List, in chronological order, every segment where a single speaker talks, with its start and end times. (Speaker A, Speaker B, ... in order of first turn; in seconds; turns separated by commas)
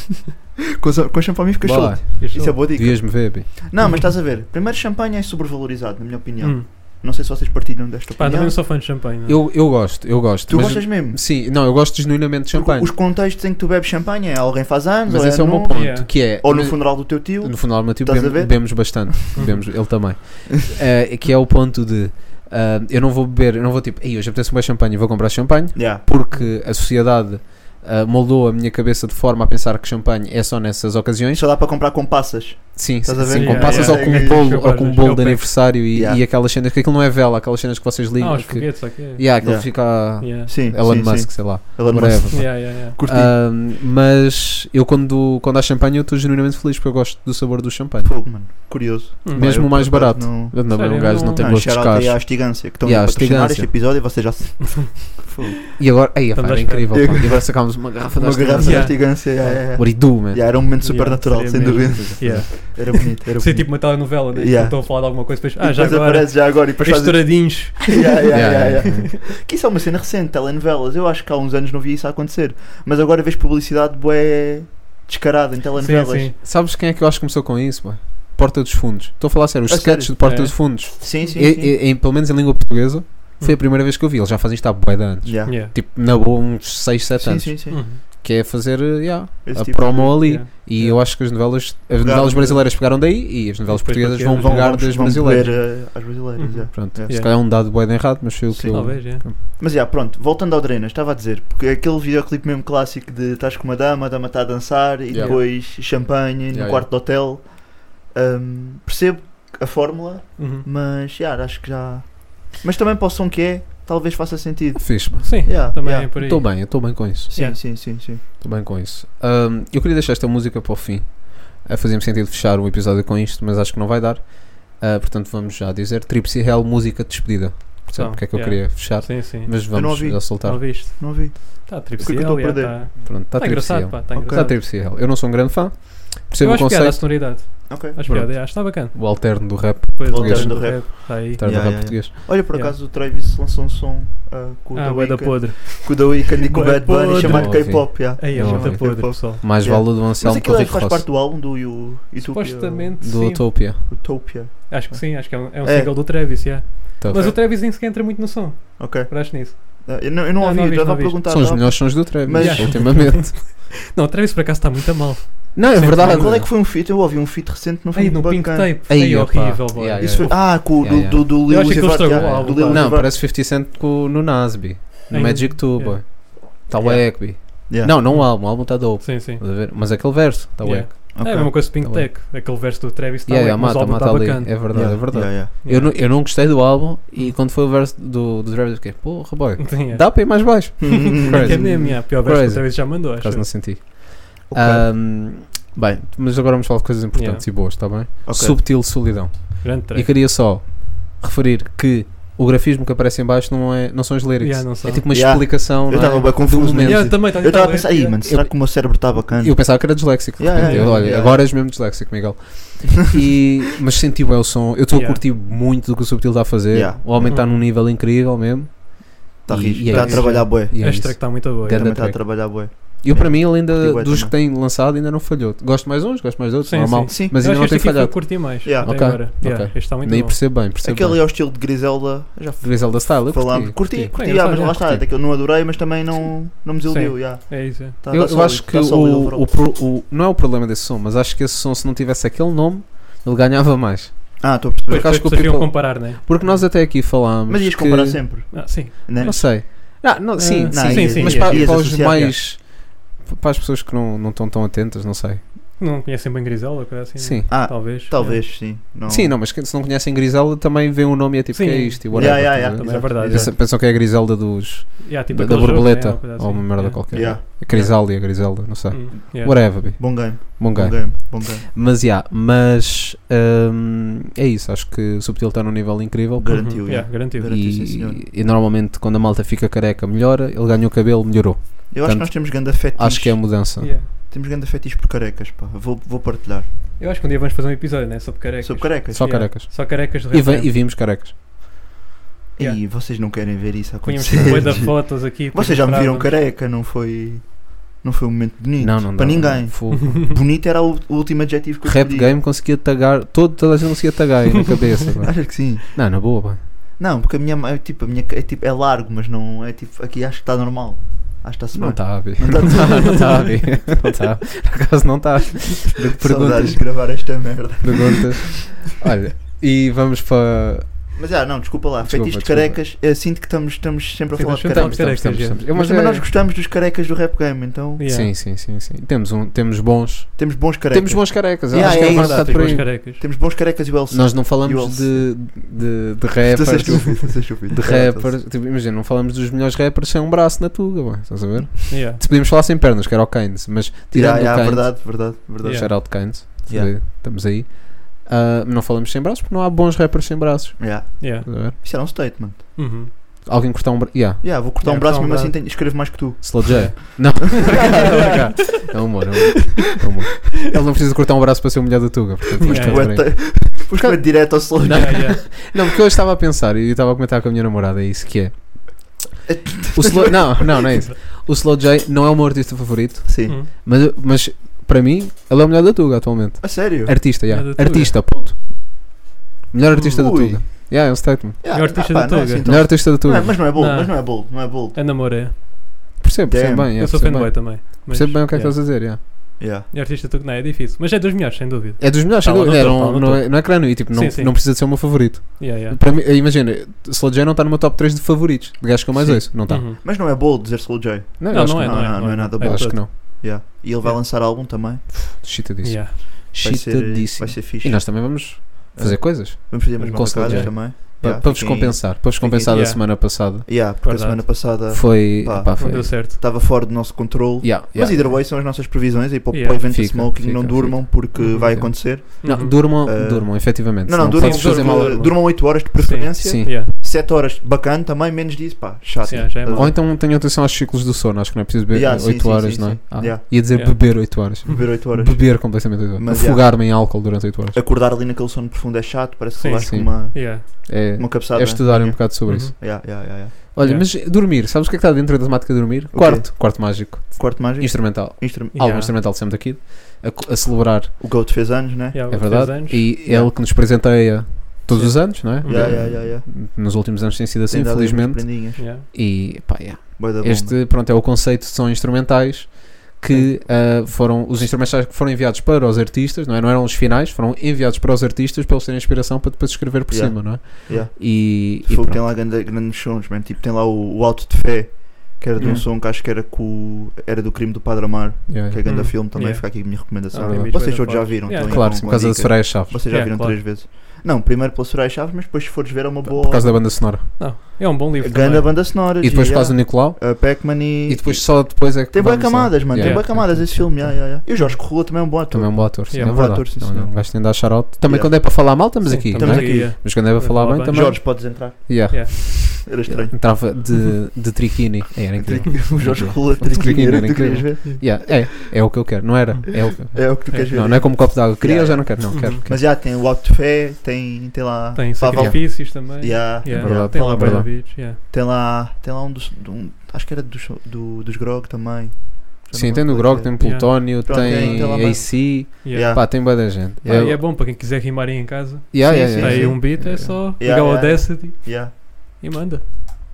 Speaker A: 0.8-8.6, Speaker B: 1.6-3.9, Speaker C: 2.2-2.6, Speaker C: 3.8-4.1, Speaker C: 6.4-6.7, Speaker C: 8.2-9.4, Speaker B: 9.2-12.9, Speaker A: 10.4-11.2, Speaker A: 12.5-19.2, Speaker B: 15.1-31.4, Speaker C: 15.7-16.1, Speaker C: 19.3-19.7, Speaker A: 25.7-26.0, Speaker A: 31.3-35.0, Speaker B: 32.8-48.3, Speaker C: 33.2-35.6, Speaker A: 35.9-36.2, Speaker C: 38.2-39.6, Speaker A: 39.4-43.3, Speaker C: 40.2-40.5, Speaker C: 42.3-43.0, Speaker A: 48.0-55.6, Speaker C: 49.2-49.6, Speaker B: 49.3-53.8, Speaker C: 50.7-51.5, Speaker C: 54.8-55.0, Speaker B: 55.7-60.7, Speaker C: 56.3-57.3, Speaker A: 56.9-76.3, Speaker C: 58.6-59.6, Speaker C: 60.8-69.1, Speaker B: 61.6-62.5, Speaker B: 68.3-69.1, Speaker C: 75.8-76.3, Speaker B: 76.4-95.8, Speaker A: 79.7-81.7, Speaker C: 80.2-80.5, Speaker A: 85.2-85.6, Speaker C: 85.5-85.7, Speaker A: 87.2-87.9, Speaker C: 87.7-88.0, Speaker A: 89.4-92.7, Speaker C: 90.2-90.9, Speaker C: 93.7-95.6, Speaker A: 94.3-97.3, Speaker C: 96.3-97.3, Speaker B: 96.7-99.4, Speaker A: 98.5-116.6, Speaker C: 98.7-99.2, Speaker B: 105.1-105.7, Speaker C: 105.2-105.4, Speaker B: 106.5-106.8, Speaker C: 110.4-110.7, Speaker B: 114.8-117.3, Speaker C: 115.2-117.6, Speaker A: 117.3-118.2, Speaker B: 118.4-130.6, Speaker C: 127.9-134.6, Speaker A: 129.7-133.1, Speaker B: 133.0-142.1, Speaker A: 134.1-134.5, Speaker C: 136.4-141.9, Speaker A: 137.7-138.0, Speaker A: 140.1-152.9, Speaker C: 142.5-142.8, Speaker C: 144.7-149.4, Speaker B: 147.2-151.1, Speaker C: 152.2-154.0, Speaker B: 153.0-153.8, Speaker A: 153.7-156.5, Speaker C: 154.7-161.8, Speaker B: 157.0-157.3, Speaker A: 158.8-163.2, Speaker B: 161.3-163.4, Speaker C: 162.3-166.4, Speaker B: 165.5-166.5, Speaker A: 166.0-168.7, Speaker C: 167.9-170.4, Speaker B: 168.9-182.1, Speaker A: 169.9-173.2, Speaker C: 171.4-172.9, Speaker C: 175.1-176.3, Speaker A: 176.7-178.0, Speaker C: 178.0-186.6, Speaker A: 181.1-181.6, Speaker B: 183.2-207.7, Speaker A: 184.7-185.5, Speaker C: 189.6-193.5, Speaker A: 190.8-192.0, Speaker A: 194.5-194.9, Speaker C: 197.1-197.4, Speaker A: 198.2-198.6, Speaker C: 199.6-200.1, Speaker C: 204.4-205.4, Speaker A: 205.1-211.6, Speaker C: 206.7-208.2, Speaker B: 208.2-231.2, Speaker C: 210.6-211.1, Speaker C: 214.9-215.2, Speaker A: 216.7-217.3, Speaker C: 217.2-217.6, Speaker A: 219.4-224.3, Speaker C: 219.9-221.9, Speaker C: 226.6-230.4, Speaker A: 227.1-227.3, Speaker A: 228.6-229.2, Speaker A: 230.8-239.5, Speaker B: 232.6-235.1, Speaker C: 234.1-235.0, Speaker C: 236.8-237.9, Speaker B: 238.1-248.6, Speaker A: 244.4-245.3, Speaker C: 244.9-246.7, Speaker A: 246.6-249.9, Speaker C: 248.5-251.7, Speaker B: 249.2-255.4, Speaker A: 250.7-252.4, Speaker C: 255.8-258.4, Speaker B: 257.2-257.5, Speaker A: 257.5-259.3, Speaker B: 259.1-284.0, Speaker C: 261.5-263.5, Speaker A: 262.1-263.6, Speaker C: 265.0-268.0, Speaker A: 267.1-268.0, Speaker C: 268.9-269.6, Speaker A: 269.5-271.6, Speaker A: 276.4-278.2, Speaker C: 276.5-277.5, Speaker A: 281.9-286.7, Speaker C: 283.8-284.1, Speaker C: 287.0-290.7, Speaker A: 288.6-289.4, Speaker B: 289.1-291.3, Speaker A: 292.6-302.3, Speaker C: 294.0-296.3, Speaker B: 294.4-294.8, Speaker B: 298.8-300.3, Speaker B: 301.8-306.6, Speaker A: 305.2-313.6, Speaker B: 311.7-321.2, Speaker A: 316.2-318.5, Speaker A: 321.1-328.0, Speaker B: 322.0-322.8, Speaker C: 324.4-325.6, Speaker B: 324.7-326.3, Speaker C: 328.0-328.3, Speaker B: 328.0-332.9, Speaker A: 330.4-335.5, Speaker C: 331.7-333.2, Speaker B: 334.1-351.8, Speaker A: 336.5-338.4, Speaker C: 341.9-342.2, Speaker A: 344.1-346.9, Speaker C: 345.6-345.9, Speaker A: 350.8-352.8, Speaker C: 351.2-351.9, Speaker C: 352.8-353.1, Speaker B: 353.4-354.4, Speaker A: 354.4-358.4, Speaker C: 354.8-355.6, Speaker B: 356.4-369.2, Speaker C: 356.6-358.5, Speaker C: 362.6-363.1, Speaker A: 362.6-365.5, Speaker C: 364.9-365.5, Speaker A: 369.4-370.9, Speaker B: 369.9-378.7, Speaker A: 373.2-373.6, Speaker A: 376.6-377.2, Speaker C: 377.5-378.2, Speaker B: 379.7-381.9, Speaker C: 379.9-380.5, Speaker A: 380.1-385.0, Speaker C: 381.7-385.6, Speaker B: 382.6-383.6, Speaker B: 386.2-389.2, Speaker A: 386.5-386.9, Speaker C: 386.9-396.0, Speaker A: 389.6-389.9, Speaker B: 392.0-399.9, Speaker A: 399.1-405.1, Speaker C: 399.7-400.0, Speaker B: 401.4-403.1, Speaker C: 401.5-404.2, Speaker B: 405.3-413.7, Speaker C: 405.8-406.1, Speaker A: 406.5-430.0, Speaker C: 410.0-410.8, Speaker C: 412.7-414.4, Speaker B: 414.9-416.2, Speaker C: 415.8-416.4, Speaker B: 417.6-418.3, Speaker C: 419.5-419.9, Speaker B: 419.8-425.4, Speaker C: 421.3-422.8, Speaker C: 424.3-426.9, Speaker B: 426.4-426.7, Speaker C: 429.2-429.9, Speaker B: 429.7-437.8, Speaker A: 431.9-434.0, Speaker C: 433.7-434.9, Speaker A: 434.6-443.6, Speaker C: 439.6-440.6, Speaker B: 439.8-442.8, Speaker C: 442.4-442.8, Speaker B: 443.7-451.2, Speaker C: 443.8-444.1, Speaker A: 446.1-448.9, Speaker C: 448.7-449.1, Speaker A: 451.2-452.6, Speaker C: 452.1-453.1, Speaker B: 452.3-472.2, Speaker A: 453.2-454.3, Speaker A: 454.9-456.5, Speaker C: 455.0-456.1, Speaker A: 457.7-458.8, Speaker C: 458.8-459.0, Speaker A: 460.2-460.8, Speaker A: 470.1-487.3, Speaker C: 475.6-475.9, Speaker B: 475.6-475.8, Speaker B: 478.5-479.1, Speaker C: 478.8-482.4, Speaker B: 480.4-483.2, Speaker C: 483.1-483.6, Speaker B: 486.2-487.3, Speaker C: 487.4-488.8, Speaker A: 488.2-500.2, Speaker B: 489.2-494.8, Speaker C: 493.0-493.6, Speaker B: 495.5-512.8, Speaker C: 496.1-496.6, Speaker C: 499.0-501.3, Speaker A: 500.9-503.6, Speaker C: 502.1-502.9, Speaker A: 505.4-508.4, Speaker A: 510.0-527.3, Speaker C: 510.5-510.8, Speaker C: 512.3-512.6, Speaker C: 515.0-518.2, Speaker B: 515.3-515.6, Speaker B: 516.7-517.7, Speaker B: 522.7-527.4, Speaker C: 523.6-525.1, Speaker C: 525.8-526.3, Speaker C: 527.0-532.9, Speaker B: 528.9-530.4, Speaker A: 529.0-531.9